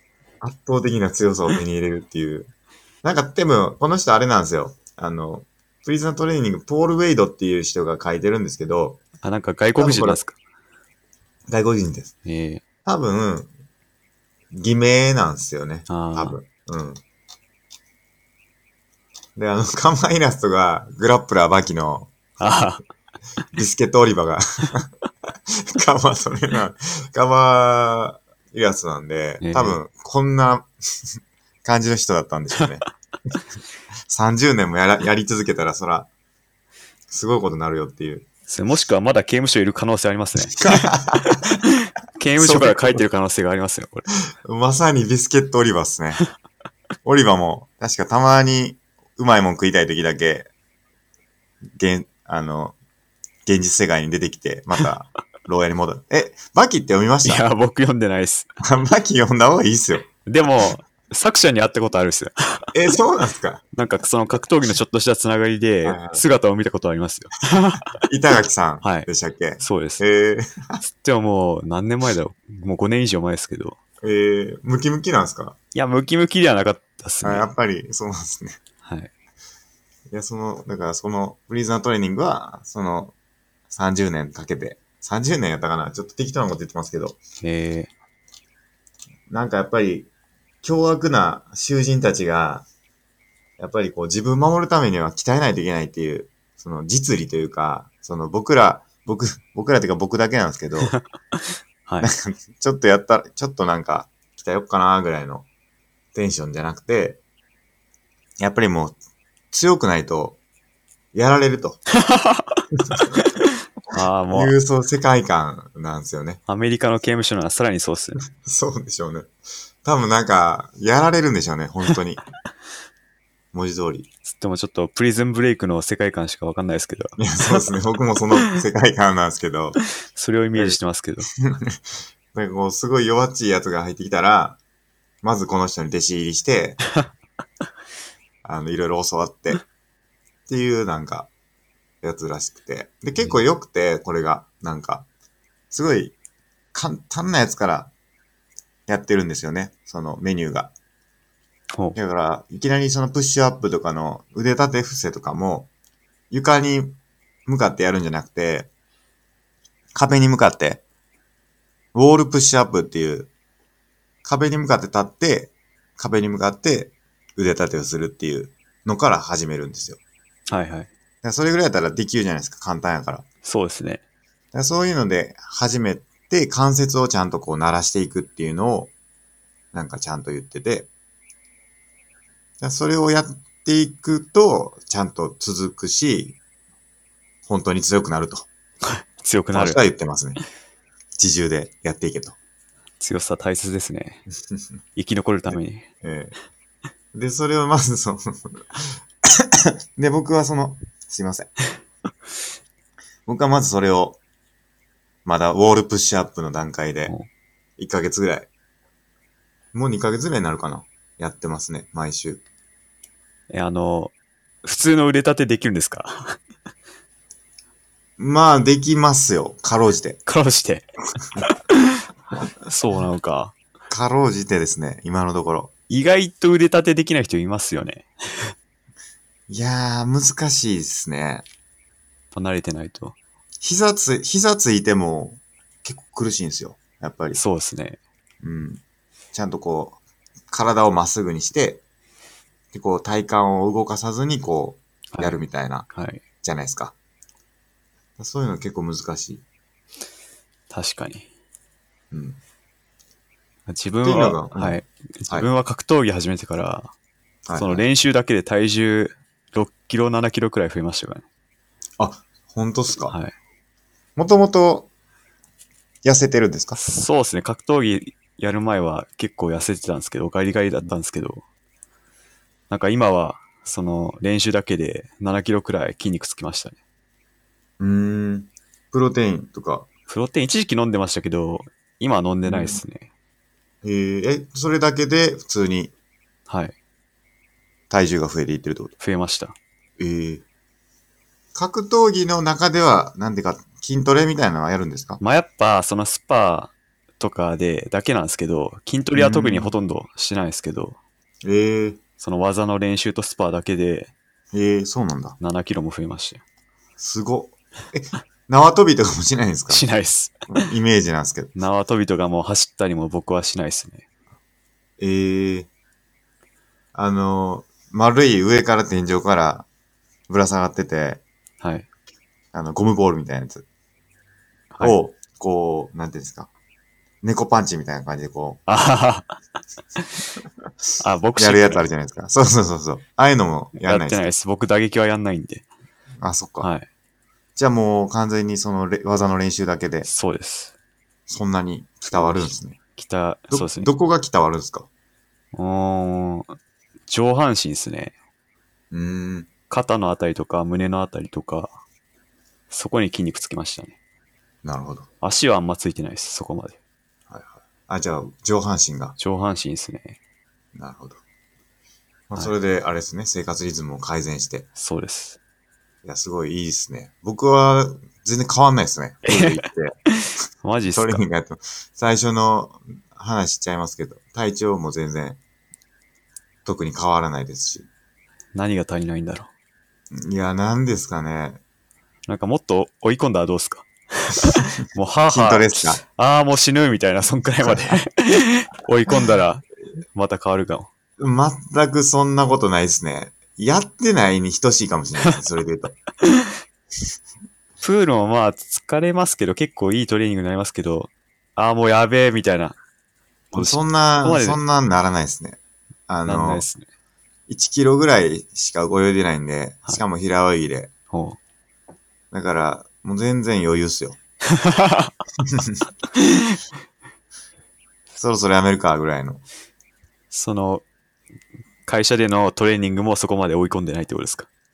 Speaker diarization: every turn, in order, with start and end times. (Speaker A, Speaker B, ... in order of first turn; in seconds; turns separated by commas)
Speaker A: 0.4-2.5, Speaker A: 3.0-9.0, Speaker B: 9.2-10.3, Speaker A: 9.8-10.2, Speaker A: 11.5-12.1, Speaker B: 12.2-12.6, Speaker A: 12.9-13.5, Speaker A: 14.5-17.0, Speaker B: 15.9-16.4, Speaker A: 19.4-22.1, Speaker B: 22.4-22.8, Speaker A: 23.5-24.9, Speaker A: 25.5-30.7, Speaker B: 29.4-29.8, Speaker A: 31.6-32.9, Speaker A: 34.1-36.1, Speaker A: 37.1-38.3, Speaker B: 38.5-44.1, Speaker A: 40.5-41.4, Speaker A: 42.4-43.0, Speaker A: 44.4-46.2, Speaker A: 47.0-50.5, Speaker A: 51.8-52.8, Speaker A: 53.5-57.5, Speaker B: 57.2-58.5, Speaker A: 58.6-60.1, Speaker B: 60.3-62.7, Speaker A: 62.7-63.6, Speaker B: 63.7-67.9, Speaker A: 65.8-66.2, Speaker A: 68.0-70.8, Speaker B: 68.8-69.1, Speaker B: 69.6-70.0, Speaker B: 70.9-73.8, Speaker A: 74.0-75.6, Speaker B: 75.7-77.5, Speaker A: 77.2-78.6, Speaker B: 78.8-79.1, Speaker A: 80.1-83.1, Speaker A: 83.7-87.2, Speaker B: 87.4-87.9, Speaker A: 89.3-90.1, Speaker A: 90.6-92.7, Speaker A: 93.6-101.0, Speaker B: 100.9-102.1, Speaker A: 102.0-105.5, Speaker A: 106.1-107.2, Speaker A: 108.4-109.0, Speaker A: 109.5-110.4, Speaker A: 111.1-111.8, Speaker B: 111.9-112.6, Speaker A: 112.8-113.2, Speaker B: 113.2-114.5, Speaker A: 114.3-116.4, Speaker B: 116.5-118.2, Speaker A: 118.4-119.3, Speaker A: 119.8-122.2, Speaker A: 123.5-124.1, Speaker B: 124.3-127.6, Speaker A: 127.2-129.8, Speaker B: 130.1-131.3, Speaker A: 131.4-131.8, Speaker A: 132.3-134.6, Speaker A: 135.2-136.8, Speaker A: 138.4-139.6, Speaker A: 140.5-141.3, Speaker A: 142.0-145.1, Speaker A: 145.7-146.2, Speaker A: 146.7-147.9, Speaker A: 148.9-150.7, Speaker A: 151.9-155.7, Speaker A: 156.3-158.7, Speaker A: 159.9-160.8, Speaker A: 161.9-163.3, Speaker A: 164.2-170.0, Speaker B: 170.5-170.9, Speaker A: 171.2-173.2, Speaker B: 173.4-174.0, Speaker A: 174.5-178.9, Speaker A: 179.7-180.9, Speaker A: 182.6-186.4, Speaker A: 187.5-188.5, Speaker B: 188.8-189.8, Speaker A: 189.5-190.4, Speaker A: 191.2-192.4, Speaker B: 193.0-194.2, Speaker B: 195.0-195.9, Speaker A: 196.0-196.3, Speaker A: 197.1-201.5, Speaker A: 203.3-204.2, Speaker A: 205.2-207.1, Speaker A: 207.8-208.5, Speaker A: 209.7-212.4, Speaker B: 213.5-214.1, Speaker B: 214.6-216.4, Speaker A: 218.2-220.2, Speaker B: 220.3-222.0, Speaker B: 222.6-223.5, Speaker A: 223.9-225.7, Speaker B: 225.9-228.5, Speaker A: 229.5-231.5, Speaker B: 232.3-233.2, Speaker A: 233.6-237.4, Speaker B: 237.3-238.0, Speaker A: 238.4-238.8, Speaker A: 239.3-240.0, Speaker A: 240.5-241.8, Speaker A: 242.7-245.9, Speaker B: 245.9-246.2, Speaker A: 246.4-246.9, Speaker A: 248.2-249.4, Speaker B: 250.7-251.3, Speaker A: 252.1-252.4, Speaker B: 253.7-256.9, Speaker A: 254.0-255.5, Speaker A: 257.5-257.9, Speaker B: 257.6-261.2, Speaker A: 262.0-263.1, Speaker B: 263.1-263.3, Speaker A: 264.2-264.9, Speaker A: 266.0-266.8, Speaker B: 266.8-271.4, Speaker B: 272.7-276.8, Speaker A: 277.8-279.9, Speaker B: 280.1-283.1, Speaker A: 282.5-282.8, Speaker A: 283.8-285.9, Speaker B: 286.5-286.8, Speaker A: 287.9-288.9, Speaker B: 289.0-289.6, Speaker A: 290.0-290.4, Speaker A: 291.6-295.2, Speaker B: 295.2-301.0, Speaker A: 299.1-299.7, Speaker A: 301.4-302.0, Speaker B: 302.2-304.1, Speaker A: 304.5-305.4, Speaker B: 305.4-306.4, Speaker A: 307.0-309.8, Speaker B: 309.7-310.4, Speaker A: 310.5-311.5, Speaker B: 311.6-314.0, Speaker A: 315.0-315.7, Speaker A: 316.9-319.7, Speaker A: 320.3-321.2, Speaker B: 321.6-321.9, Speaker A: 322.5-323.6, Speaker A: 324.8-326.5, Speaker A: 327.2-328.6, Speaker B: 328.7-329.4, Speaker B: 331.0-331.9, Speaker A: 331.4-334.3, Speaker B: 333.8-335.7, Speaker A: 336.2-336.7, Speaker B: 336.6-336.9, Speaker A: 337.6-340.1, Speaker B: 340.1-340.7, Speaker A: 341.3-342.8, Speaker B: 342.1-343.9, Speaker A: 343.5-344.9, Speaker B: 345.5-346.6, Speaker B: 347.1-348.1, Speaker A: 348.9-349.5, Speaker B: 349.7-351.8, Speaker B: 352.7-354.0, Speaker A: 354.6-355.1, Speaker B: 355.2-356.8, Speaker A: 357.3-359.2, Speaker B: 359.2-360.2, Speaker A: 360.8-361.2, Speaker A: 362.3-364.7, Speaker B: 364.8-365.4, Speaker A: 366.0-370.0, Speaker B: 369.2-371.2, Speaker A: 370.9-375.4, Speaker A: 376.6-377.9, Speaker B: 378.5-379.5, Speaker A: 380.1-381.6, Speaker B: 382.3-390.9, Speaker A: 385.3-386.0, Speaker A: 387.6-388.0, Speaker A: 391.2-396.0, Speaker B: 397.8-402.8, Speaker B: 403.5-404.6, Speaker A: 403.5-406.7, Speaker B: 406.3-406.9, Speaker A: 407.5-410.9, Speaker B: 411.1-411.4, Speaker A: 412.3-414.2, Speaker B: 414.5-415.1, Speaker A: 415.5-415.8, Speaker B: 416.1-416.6, Speaker A: 418.2-419.4, Speaker B: 420.3-420.8, Speaker B: 421.9-424.5